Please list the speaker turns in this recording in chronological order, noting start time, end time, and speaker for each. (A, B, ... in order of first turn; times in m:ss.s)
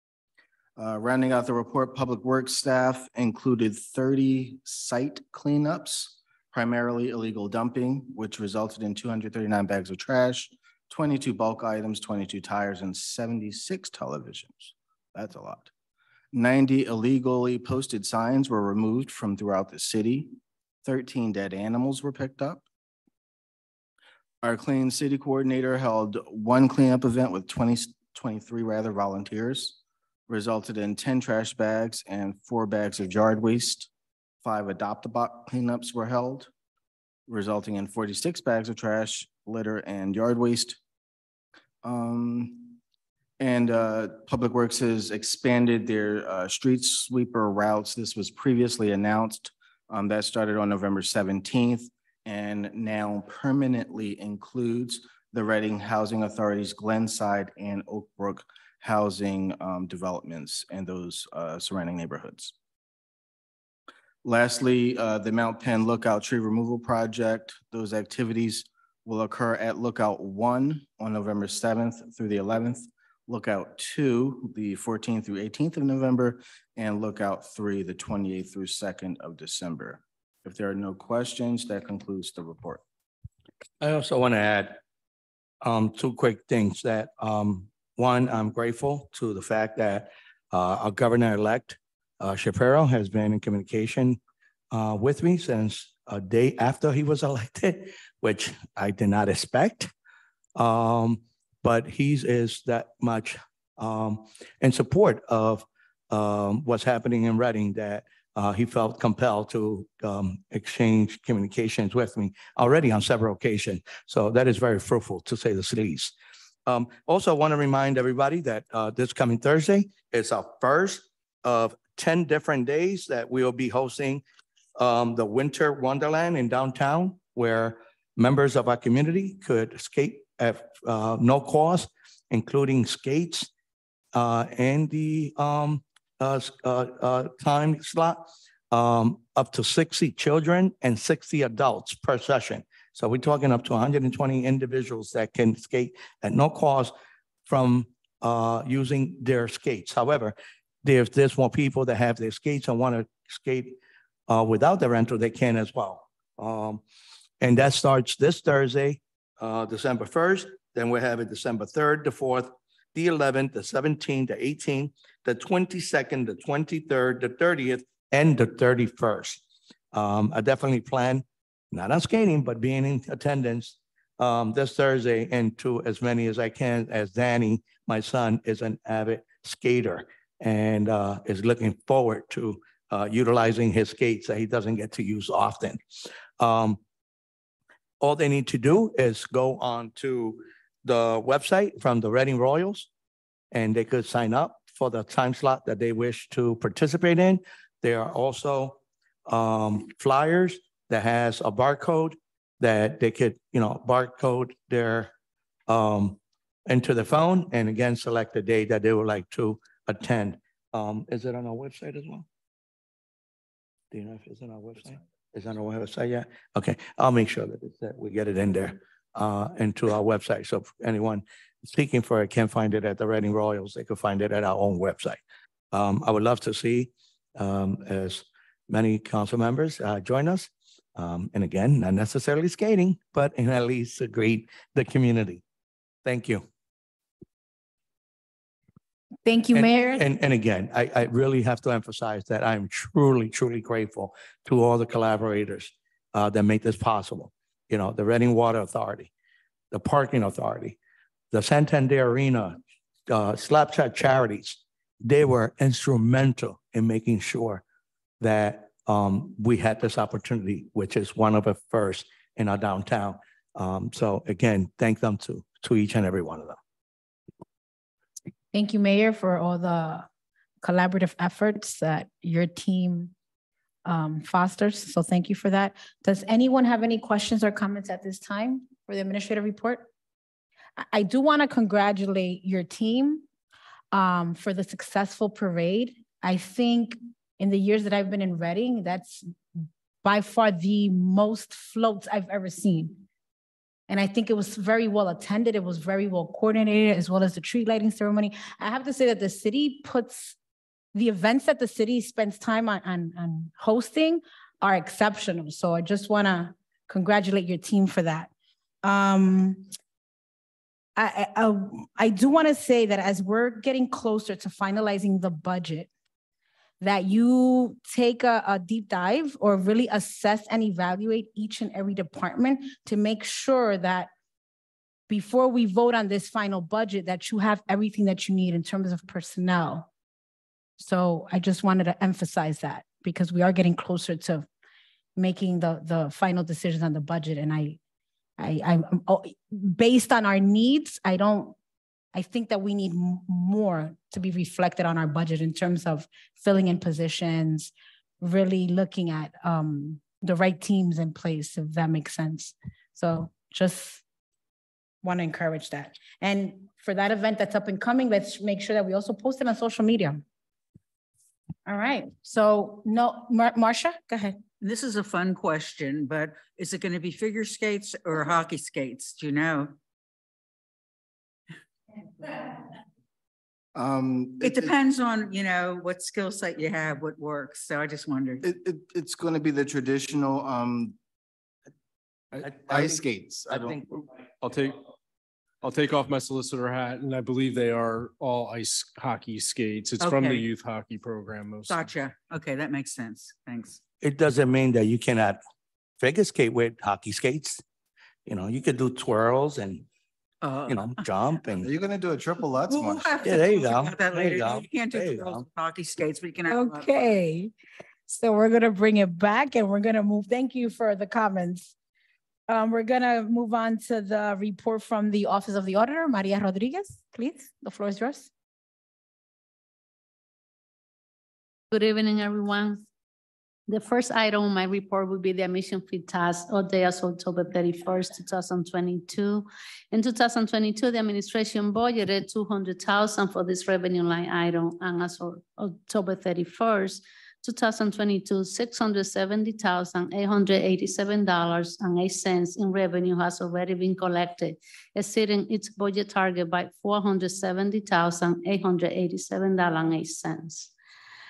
0:00.8-0:15.7 A
0:16.3-0:22.6 A
0:24.4-0:29.8 A
0:30.3-0:33.9 A
0:34.4-0:36.5 A
0:37.3-0:40.8 A
0:41.8-0:42.8 A
0:43.4-1:02.5 A
1:04.2-1:22.8 A
1:23.8-1:24.8 B
1:25.6-1:34.2 B
1:34.7-1:39.9 B
1:40.5-1:56.1 B
1:56.6-2:04.2 B
2:04.8-2:13.5 B
2:14.1-2:26.9 B
2:27.4-2:33.8 B
2:34.3-2:36.8 B
2:37.4-2:49.4 B
2:49.9-3:06.8 B
3:08.0-3:12.9 B
3:13.5-3:25.1 B
3:25.7-3:32.2 B
3:33.9-3:45.2 B
3:45.7-3:55.4 B
3:56.0-3:56.4 B
3:59.2-4:00.0 C
3:59.5-4:09.1 B
4:09.7-4:10.8 B
4:11.3-4:17.6 B
4:18.2-4:26.6 B
4:28.5-4:30.1 C
4:30.6-4:33.1 C
4:33.8-4:39.9 C
4:40.8-4:43.2 C
4:43.9-4:53.0 C
4:53.9-5:00.4 C
5:00.9-5:08.3 C
5:08.8-5:09.7 C
5:11.0-5:15.9 C
5:16.8-5:24.1 C
5:25.1-5:29.9 C
5:30.8-5:34.5 C
5:35.2-5:37.8 C
5:38.4-5:41.5 C
5:42.1-5:54.0 C
5:55.0-6:00.2 C
6:01.6-6:04.4 C
6:04.6-6:09.7 D
6:13.7-6:14.8 A
6:14.4-6:18.4 D
6:18.4-6:21.0 A
6:22.5-6:23.7 A
6:23.3-6:23.7 E
6:23.5-6:23.8 B
6:24.4-6:24.8 E
6:25.6-6:31.9 E
6:30.0-6:30.4 D
6:31.6-6:33.8 D
6:34.0-6:35.4 B
6:36.0-6:37.6 B
6:38.2-6:39.8 B
6:40.4-6:41.0 D
6:40.6-6:41.7 B
6:41.6-6:43.2 A
6:42.7-6:46.9 D
6:43.2-6:45.4 B
6:46.5-6:47.5 C
6:48.1-6:51.7 C
6:52.5-6:58.3 C
7:01.7-7:02.8 F
7:03.7-7:30.7 F